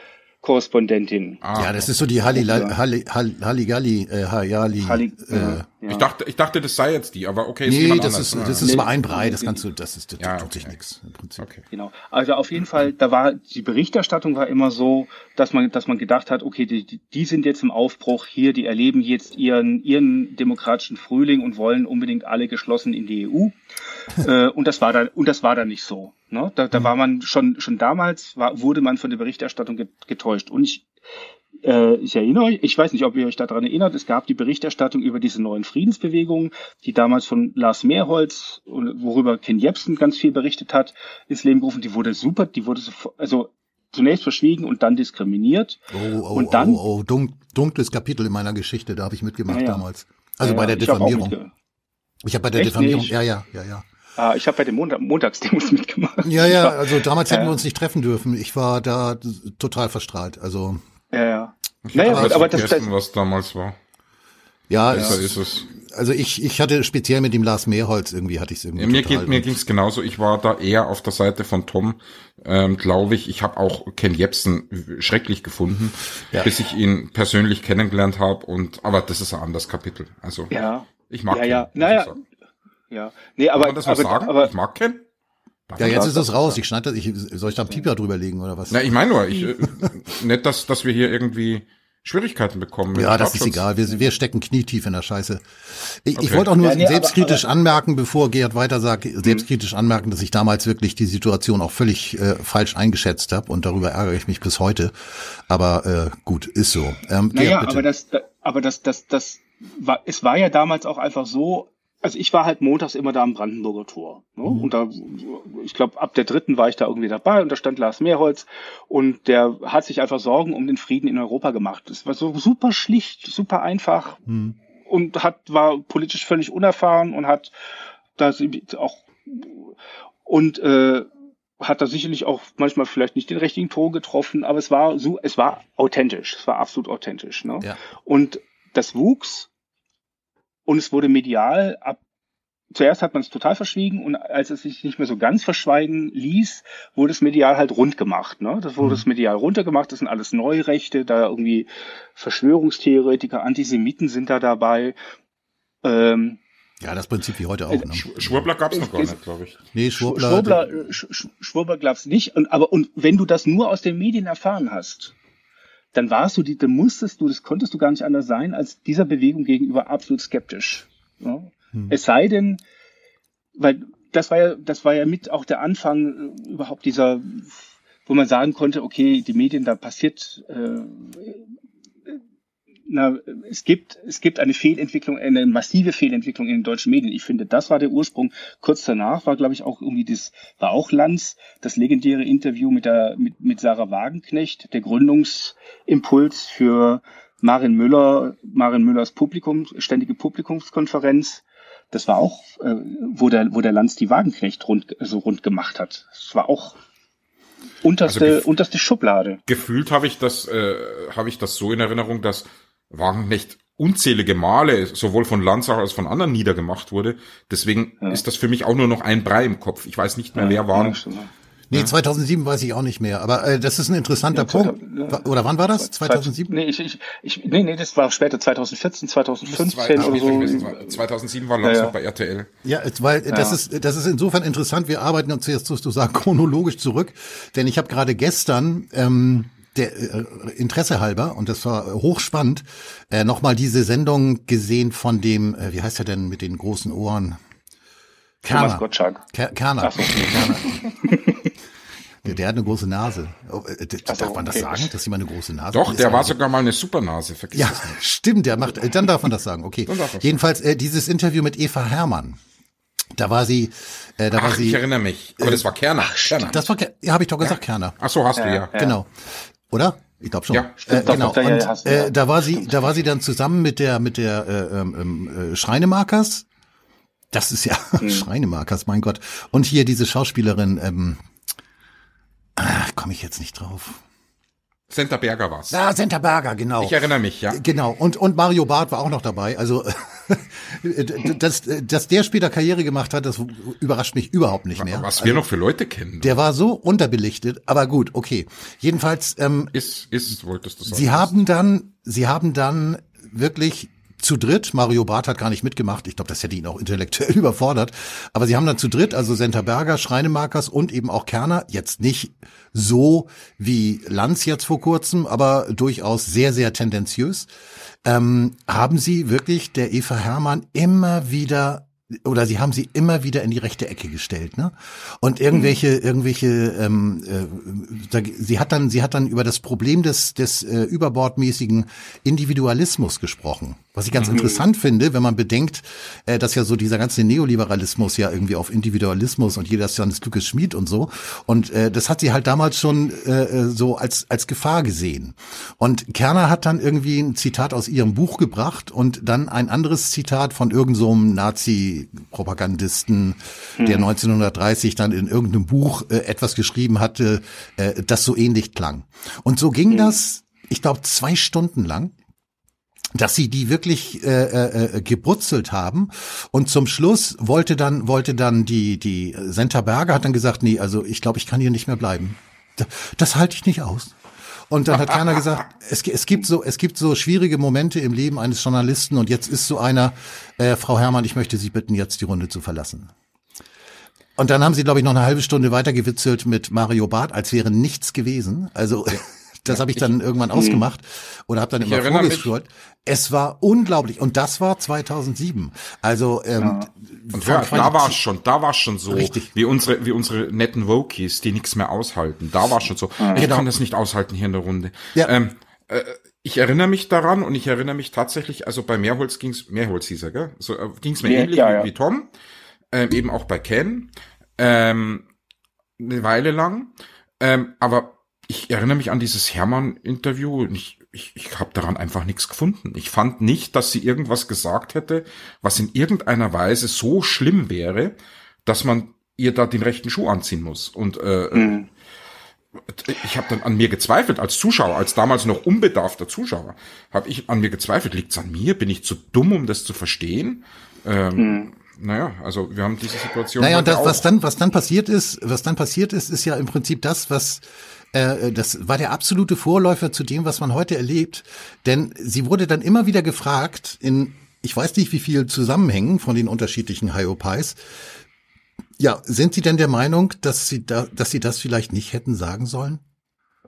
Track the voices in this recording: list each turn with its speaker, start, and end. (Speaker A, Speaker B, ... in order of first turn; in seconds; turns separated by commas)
Speaker A: 0.4-1.4, Speaker B: 1.4-1.9, Speaker C: 1.6-5.7, Speaker A: 2.3-2.8, Speaker A: 4.8-6.1, Speaker B: 5.9-8.7, Speaker C: 7.7-11.5, Speaker A: 8.6-9.6, Speaker B: 10.2-10.8, Speaker B: 11.4-11.6, Speaker A: 11.7-23.6, Speaker A: 24.2-30.9, Speaker A: 31.6-46.8, Speaker C: 45.9-51.4, Speaker A: 49.5-49.8, Speaker A: 50.4-51.5, Speaker C: 52.2-53.9, Speaker A: 52.6-53.1, Speaker A: 54.2-57.6, Speaker C: 56.2-60.8, Speaker A: 61.1-62.9, Speaker B: 61.9-63.8, Speaker C: 62.0-62.6, Speaker C: 64.7-69.6, Speaker B: 64.9-65.7, Speaker B: 68.8-80.5, Speaker A: 80.5-82.2, Speaker B: 81.1-82.2, Speaker A: 82.9-84.5, Speaker B: 83.6-85.0, Speaker B: 85.7-86.3, Speaker C: 85.8-89.0, Speaker A: 85.8-86.5, Speaker B: 88.7-93.7, Speaker C: 92.9-104.9, Speaker B: 96.2-96.5, Speaker A: 96.6-97.4, Speaker C: 105.5-107.9, Speaker A: 107.3-124.2, Speaker C: 124.3-124.6, Speaker A: 124.9-127.5, Speaker A: 128.2-129.7, Speaker A: 130.3-131.1, Speaker A: 131.6-139.5, Speaker A: 140.7-142.0, Speaker A: 142.7-155.0, Speaker A: 155.8-156.4, Speaker C: 156.8-158.5, Speaker B: 157.9-159.6, Speaker A: 158.7-159.2, Speaker C: 159.7-160.7, Speaker A: 160.0-165.2, Speaker A: 165.9-172.6, Speaker A: 173.6-181.4, Speaker A: 182.9-206.8, Speaker A: 207.8-209.4, Speaker B: 208.1-208.4, Speaker B: 209.5-221.0, Speaker A: 220.3-221.3, Speaker C: 221.7-226.5, Speaker A: 224.3-231.0, Speaker B: 229.5-232.5, Speaker C: 230.0-230.3, Speaker A: 231.6-231.9, Speaker C: 232.7-247.4, Speaker A: 233.3-233.6, Speaker C: 248.4-250.8, Speaker A: 248.5-249.2, Speaker A: 249.8-251.4, Speaker C: 252.2-256.4, Speaker A: 254.1-254.9, Speaker B: 255.7-258.0, Speaker C: 257.5-262.4, Speaker B: 259.9-260.4, Speaker C: 263.1-264.8, Speaker B: 264.3-266.7, Speaker C: 265.4-268.0, Speaker B: 267.4-268.7, Speaker A: 268.4-269.0, Speaker C: 268.7-269.1, Speaker C: 269.7-276.5, Speaker B: 270.5-271.3, Speaker A: 270.8-272.7, Speaker C: 277.3-281.2, Speaker A: 278.0-278.3, Speaker C: 282.6-284.0, Speaker B: 284.9-285.8, Speaker C: 285.7-295.5, Speaker B: 286.8-287.6, Speaker B: 294.8-296.4, Speaker C: 296.2-299.7, Speaker B: 299.7-301.3, Speaker C: 300.9-317.5, Speaker C: 318.1-362.1, Speaker A: 334.3-334.6, Speaker A: 353.8-354.1, Speaker A: 359.9-360.2, Speaker C: 363.1-374.2, Speaker C: 374.7-383.1, Speaker C: 384.4-398.2, Speaker B: 389.7-390.1, Speaker A: 390.5-390.8, Speaker B: 391.8-392.5, Speaker A: 396.6-396.9, Speaker B: 397.3-412.3, Speaker C: 399.1-399.5, Speaker A: 403.2-403.5, Speaker C: 403.4-403.7, Speaker A: 411.2-411.9, Speaker B: 412.9-415.2, Speaker B: 416.0-431.8, Speaker A: 431.5-431.9, Speaker B: 432.9-444.3, Speaker A: 441.4-441.7, Speaker C: 443.6-457.8, Speaker C: 459.0-463.0